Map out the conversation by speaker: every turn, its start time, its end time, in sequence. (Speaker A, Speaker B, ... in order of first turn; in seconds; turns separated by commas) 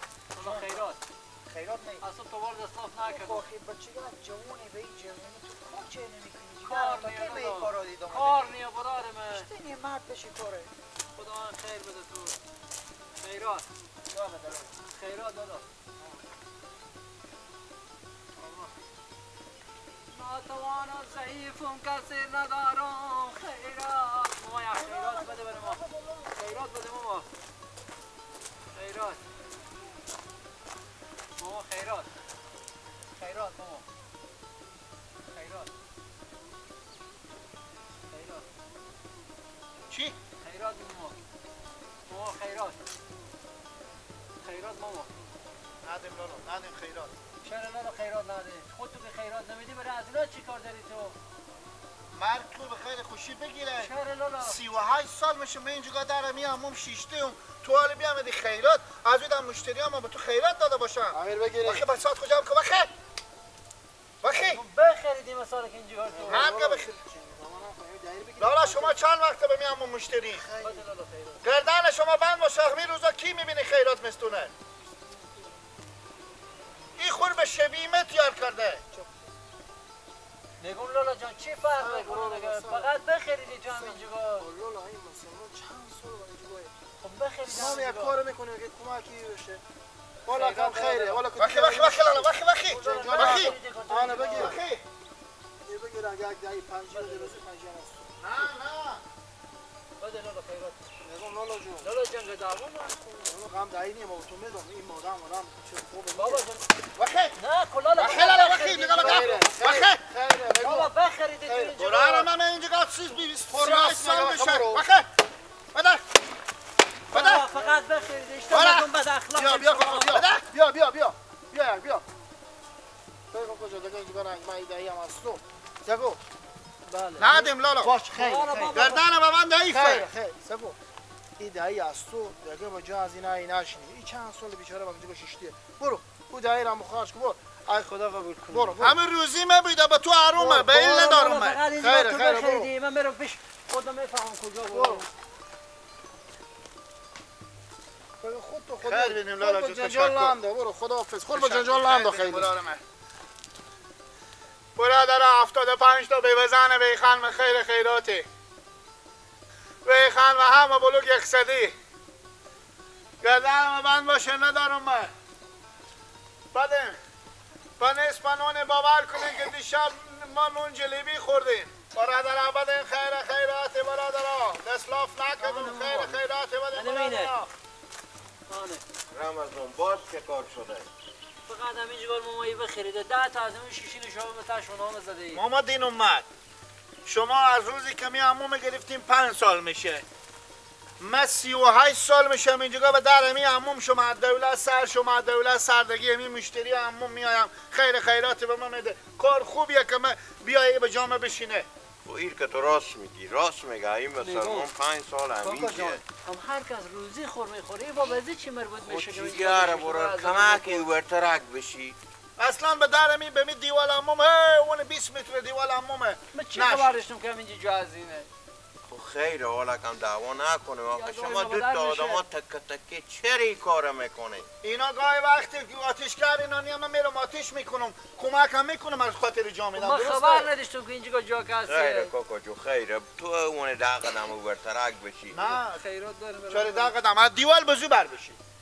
Speaker A: 0.3-1.0, Speaker B: 1.5-2.0, Speaker A: 2.0-3.4, Speaker B: 3.0-8.5, Speaker A: 6.6-9.5, Speaker B: 9.3-10.7, Speaker A: 11.2-12.4, Speaker A: 13.2-13.7, Speaker B: 14.1-14.7, Speaker A: 14.7-15.7, Speaker A: 18.4-18.8, Speaker A: 20.1-27.3, Speaker B: 24.9-26.4, Speaker A: 28.7-29.2, Speaker A: 31.4-32.1, Speaker A: 33.2-33.8, Speaker A: 35.3-35.7, Speaker A: 38.1-38.5, Speaker C: 39.9-40.2, Speaker A: 40.4-41.1, Speaker A: 42.1-42.8, Speaker A: 44.4-45.1, Speaker C: 45.8-47.1, Speaker A: 47.4-51.1, Speaker C: 52.1-62.9, Speaker A: 53.8-54.6, Speaker D: 61.1-61.8, Speaker C: 64.2-64.6, Speaker A: 64.4-66.6, Speaker D: 66.1-69.0, Speaker C: 66.3-66.9, Speaker C: 68.4-70.4, Speaker D: 70.3-70.8, Speaker A: 70.6-71.4, Speaker C: 71.4-74.5, Speaker C: 77.0-78.8, Speaker D: 78.9-79.2, Speaker A: 80.6-84.5, Speaker D: 81.8-82.9, Speaker D: 83.7-86.8, Speaker A: 87.0-88.2, Speaker D: 87.5-89.6, Speaker A: 90.2-91.2, Speaker D: 90.2-92.3, Speaker C: 91.3-93.5, Speaker A: 92.6-94.6, Speaker D: 92.8-94.6, Speaker C: 94.3-94.8, Speaker D: 95.7-98.1, Speaker A: 96.9-97.4, Speaker C: 98.2-99.0, Speaker A: 100.0-100.8, Speaker D: 101.0-101.9, Speaker A: 101.8-103.4, Speaker D: 103.2-106.4, Speaker A: 106.1-106.7, Speaker C: 107.0-107.3, Speaker A: 107.3-109.8, Speaker C: 107.9-110.0, Speaker D: 109.0-110.9, Speaker A: 110.5-112.3, Speaker D: 111.5-111.7, Speaker C: 111.8-115.1, Speaker D: 113.5-114.8, Speaker C: 115.7-116.0, Speaker C: 117.1-117.5, Speaker A: 117.1-120.2, Speaker C: 118.5-118.9, Speaker D: 119.3-122.0, Speaker C: 120.1-120.5, Speaker D: 123.3-126.2, Speaker A: 126.9-127.3, Speaker C: 127.2-127.9, Speaker D: 127.8-128.9, Speaker A: 128.1-129.0, Speaker C: 128.7-130.1, Speaker D: 129.7-130.8, Speaker D: 131.4-137.8, Speaker A: 137.7-138.8, Speaker D: 138.5-139.0, Speaker C: 138.8-141.6, Speaker D: 140.3-140.8, Speaker A: 140.7-145.1, Speaker D: 141.8-142.7, Speaker D: 144.7-145.0, Speaker D: 148.2-152.5, Speaker C: 148.8-150.3, Speaker C: 151.3-152.8, Speaker C: 154.8-158.3, Speaker C: 159.8-161.7, Speaker C: 163.2-165.1, Speaker C: 166.5-167.0, Speaker C: 167.8-177.5, Speaker A: 175.4-176.2, Speaker A: 176.7-177.3, Speaker A: 178.5-178.8, Speaker E: 179.1-180.9, Speaker A: 181.5-185.4, Speaker C: 185.3-186.3, Speaker C: 187.0-190.0, Speaker C: 191.0-201.7, Speaker E: 202.0-206.0, Speaker A: 204.2-204.7, Speaker A: 205.4-210.9, Speaker E: 208.8-212.0, Speaker C: 212.4-216.9, Speaker A: 216.3-218.3, Speaker E: 218.9-224.5, Speaker A: 220.9-222.2, Speaker C: 224.6-230.5, Speaker A: 229.8-232.1, Speaker E: 231.7-235.4, Speaker C: 235.3-235.8, Speaker A: 235.4-236.9, Speaker C: 236.5-238.4